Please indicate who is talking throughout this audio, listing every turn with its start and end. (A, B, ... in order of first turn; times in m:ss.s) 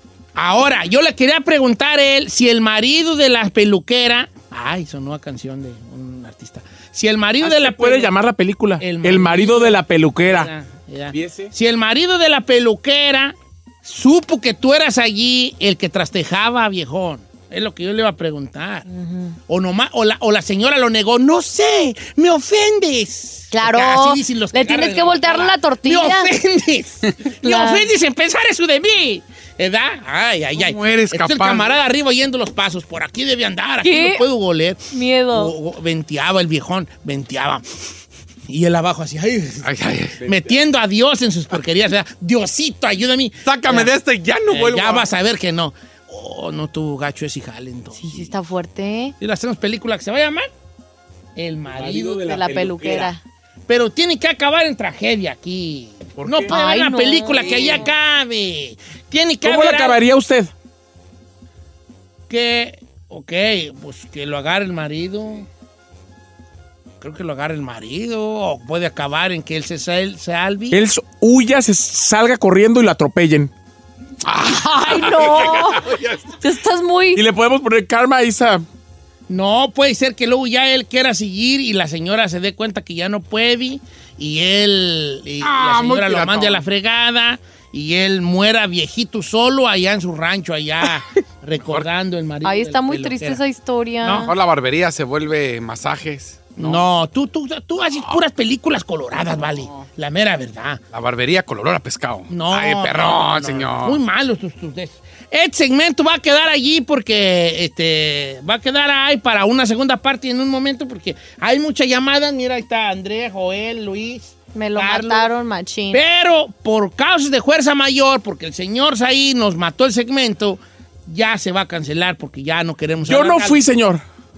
0:00.3-0:08.1 A
0:07.4-0:10.5 B
0:08.8-0:18.9 A
0:11.2-0:11.4 C
0:18.9-0:19.4 D
0:19.5-0:37.8 A
0:23.5-0:26.3 D
0:27.4-0:27.9 D
0:30.6-0:31.7 C
0:33.8-0:34.2 D
0:34.9-0:35.5 D
0:38.5-0:39.7 A
0:39.6-0:40.4 C
0:40.2-0:43.9 A
0:43.4-0:45.1 C
0:44.4-0:48.3 A
0:47.9-0:49.1 D
0:49.2-0:50.5 A
0:51.4-0:53.1 A
0:51.9-0:53.0 C
0:52.2-0:53.2 D
0:53.7-1:00.0 A
0:56.2-0:56.5 B
0:56.5-0:57.9 D
0:59.4-1:00.5 B
1:02.3-1:05.5 A
1:07.0-1:10.8 A
1:10.7-1:13.5 B
1:14.2-1:16.4 C
1:14.5-1:17.2 D
1:17.2-1:18.6 B
1:19.3-1:33.4 A
1:25.4-1:26.6 C
1:31.6-1:31.8 C
1:32.4-1:34.3 D
1:34.0-1:34.3 A
1:34.1-1:36.8 C
1:36.6-1:40.8 A
1:40.9-1:44.0 C
1:42.3-1:55.3 A
1:54.5-1:56.0 D
1:55.9-2:03.6 A
2:03.0-2:04.0 B